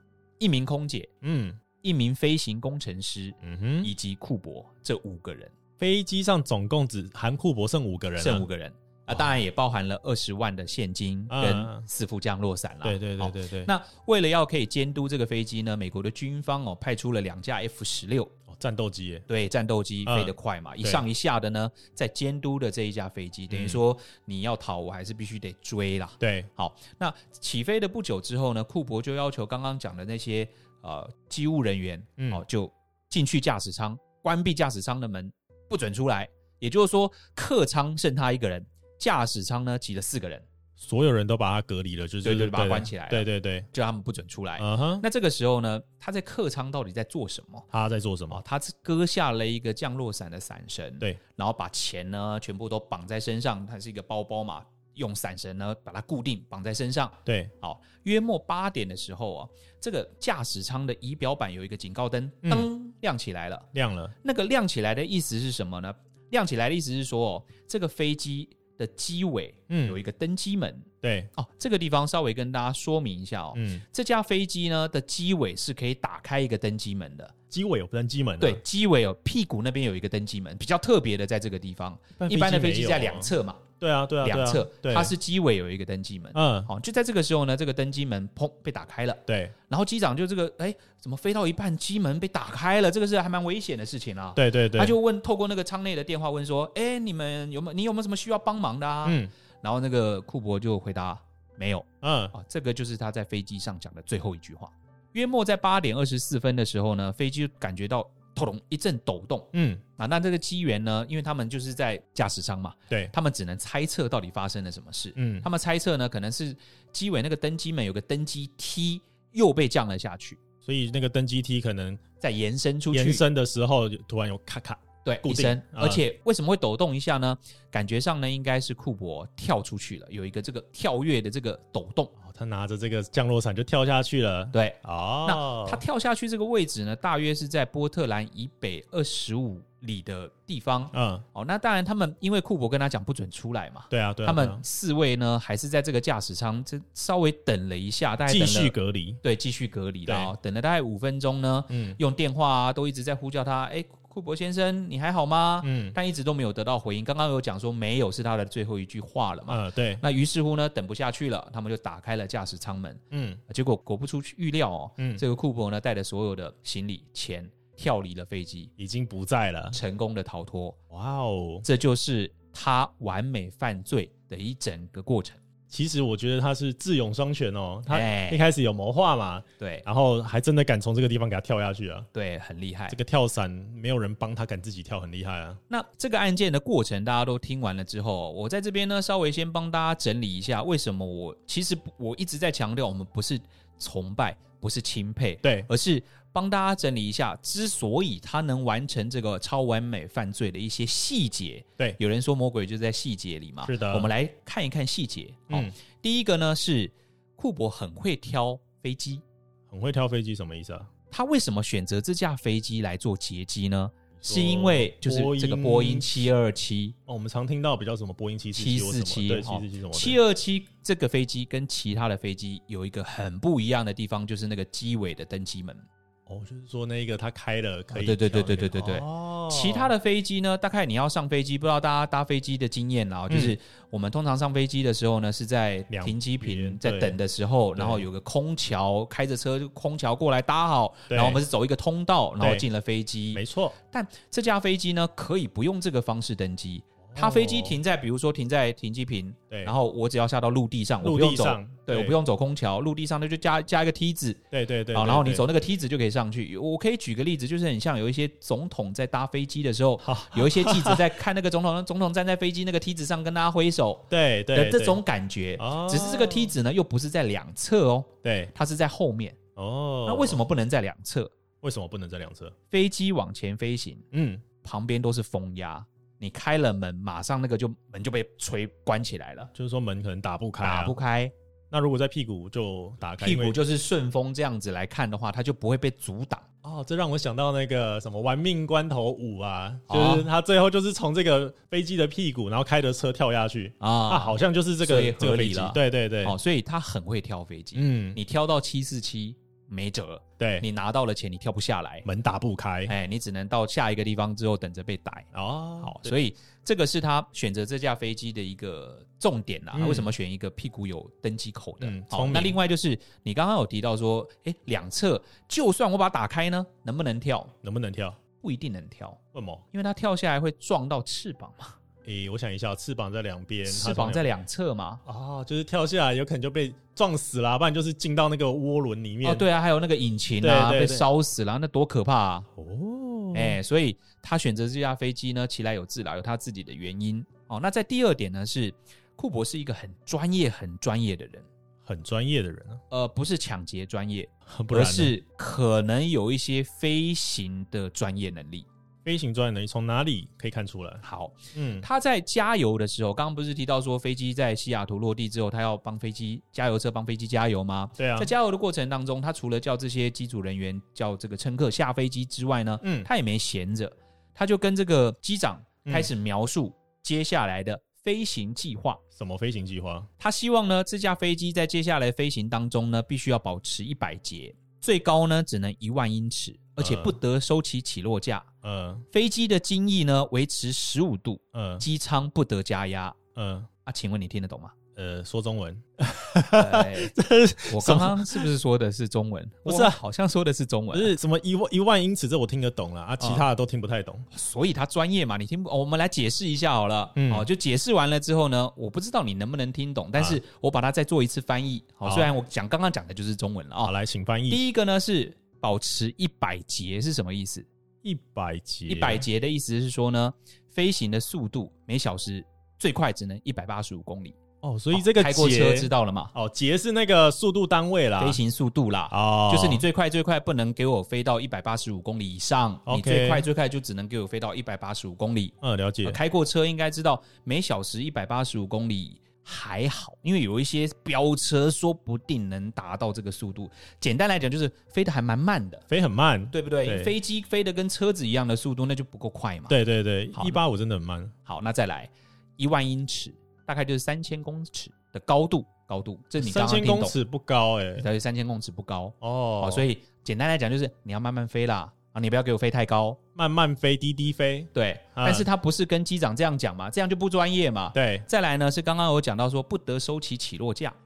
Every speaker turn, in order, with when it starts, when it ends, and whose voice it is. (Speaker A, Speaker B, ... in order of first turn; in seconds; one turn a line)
Speaker A: 0.4-1.1
Speaker B: 1.2-1.6
Speaker A: 1.8-5.5
Speaker B: 3.4-3.9
Speaker B: 5.8-8.5
Speaker A: 8.2-18.3
Speaker B: 11.3-11.8
Speaker B: 12.8-13.7
Speaker B: 18.5-19.3
Speaker A: 19.3-40.5
Speaker B: 20.1-21.0
Speaker B: 23.5-23.8
Speaker B: 26.2-26.5
Speaker B: 32.2-32.4
Speaker B: 40.8-43.7
Speaker A: 42.2-47.7
Speaker B: 44.6-45.0
Speaker B: 47.7-48.4
Speaker A: 48.3-63.7
Speaker B: 57.3-57.5
Speaker B: 63.7-64.1
Speaker A: 64.2-77.3
Speaker B: 69.7-70.0
Speaker B: 71.0-71.3
Speaker B: 73.5-73.8
Speaker B: 77.5-78.6
Speaker A: 78.4-83.6
Speaker B: 82.2-85.1
Speaker A: 84.2-120.4
Speaker B: 86.3-86.7
Speaker B: 89.3-89.5
Speaker B: 94.3-95.0
Speaker B: 99.0-99.3
Speaker B: 102.0-102.3
Speaker B: 109.5-109.8
Speaker B: 115.2-115.5
Speaker B: 120.6-122.0
Speaker A: 122.2-123.2
Speaker B: 122.9-126.0
Speaker A: 125.0-132.1
Speaker B: 132.2-135.8
Speaker A: 134.5-168.7
Speaker B: 140.9-141.2
Speaker B: 143.9-144.6
Speaker B: 148.3-149.2
Speaker B: 150.1-150.3
Speaker B: 151.7-152.0
Speaker B: 155.6-156.0
Speaker B: 159.5-160.0
Speaker B: 163.1-163.4
Speaker B: 168.8-169.8
Speaker A: 169.7-170.8
Speaker B: 170.9-171.7
Speaker A: 171.6-175.4
Speaker B: 175.7-182.1
Speaker A: 177.9-178.5
Speaker A: 179.6-179.8
Speaker A: 182.1-183.0
Speaker B: 182.9-185.6
Speaker A: 185.7-209.2
Speaker B: 195.4-195.7
Speaker B: 203.6-204.1
Speaker B: 209.7-210.9
Speaker A: 211.1-217.0
Speaker B: 214.2-216.3
Speaker B: 217.1-220.2
Speaker A: 218.6-225.8
Speaker B: 226.3-229.9
Speaker A: 227.9-254.4
Speaker B: 233.3-233.6
Speaker B: 235.9-237.2
Speaker B: 237.8-238.1
Speaker B: 241.1-241.4
Speaker B: 242.4-242.7
Speaker B: 243.3-243.8
Speaker B: 247.0-247.8
Speaker B: 251.0-252.2
Speaker B: 254.5-255.5
Speaker A: 254.9-269.4
Speaker B: 260.0-261.1
Speaker B: 264.1-265.0
Speaker B: 265.6-266.5
Speaker B: 268.2-268.5
Speaker B: 269.6-270.4
Speaker A: 270.1-271.3
Speaker B: 271.6-272.6
Speaker A: 272.7-274.1
Speaker B: 274.1-274.4
Speaker A: 274.6-279.5
Speaker B: 279.6-281.0
Speaker A: 280.6-281.3
Speaker B: 281.7-283.6
Speaker A: 283.2-286.5
Speaker B: 286.6-296.4
Speaker A: 289.9-290.3
Speaker A: 293.8-302.1
Speaker B: 297.8-298.2
Speaker B: 300.4-300.7
Speaker B: 302.1-302.9
Speaker A: 302.9-305.3
Speaker B: 305.3-306.1
Speaker A: 305.8-317.5
Speaker B: 309.7-310.1
Speaker B: 311.8-312.6
Speaker B: 317.6-318.2
Speaker A: 318.4-319.2
Speaker B: 319.3-319.6
Speaker A: 319.7-321.8
Speaker B: 322.1-324.2
Speaker A: 323.7-325.0
Speaker B: 325.1-329.5
Speaker A: 329.2-332.5
Speaker B: 330.4-331.1
Speaker B: 332.6-333.6
Speaker A: 333.3-341.5
Speaker B: 341.8-342.8
Speaker A: 342.9-348.7
Speaker B: 344.5-345.1
Speaker B: 349.1-351.0
Speaker A: 351.0-369.0
Speaker B: 351.5-351.9
Speaker B: 358.0-358.3
Speaker B: 362.8-363.1
Speaker B: 369.1-370.1
Speaker A: 370.2-378.5
Speaker B: 376.8-377.2
Speaker B: 378.6-379.1
Speaker A: 379.1-383.2
Speaker B: 381.5-381.9
Speaker B: 383.4-383.7
Speaker A: 383.9-384.7
Speaker B: 385.0-388.5
Speaker A: 386.6-387.1
Speaker A: 387.7-391.1
Speaker B: 389.7-390.0
Speaker B: 390.9-394.3
Speaker A: 393.2-393.4
Speaker A: 394.3-403.9
Speaker B: 397.2-397.5
Speaker B: 402.1-402.3
Speaker B: 403.8-404.6
Speaker A: 404.5-407.7
Speaker B: 408.0-409.3
Speaker A: 408.9-414.4
Speaker B: 414.6-418.4
Speaker A: 414.9-416.3
Speaker A: 418.2-435.9
Speaker B: 419.1-419.8
Speaker B: 422.9-423.5
Speaker B: 425.6-426.2
Speaker B: 435.9-437.1
Speaker A: 436.5-439.8
Speaker B: 439.7-441.3
Speaker A: 440.3-440.6
Speaker A: 441.4-447.1
Speaker B: 446.4-448.1
Speaker A: 448.0-453.2
Speaker B: 449.2-449.9
Speaker B: 453.4-455.5
Speaker A: 454.7-461.0
Speaker B: 457.9-458.3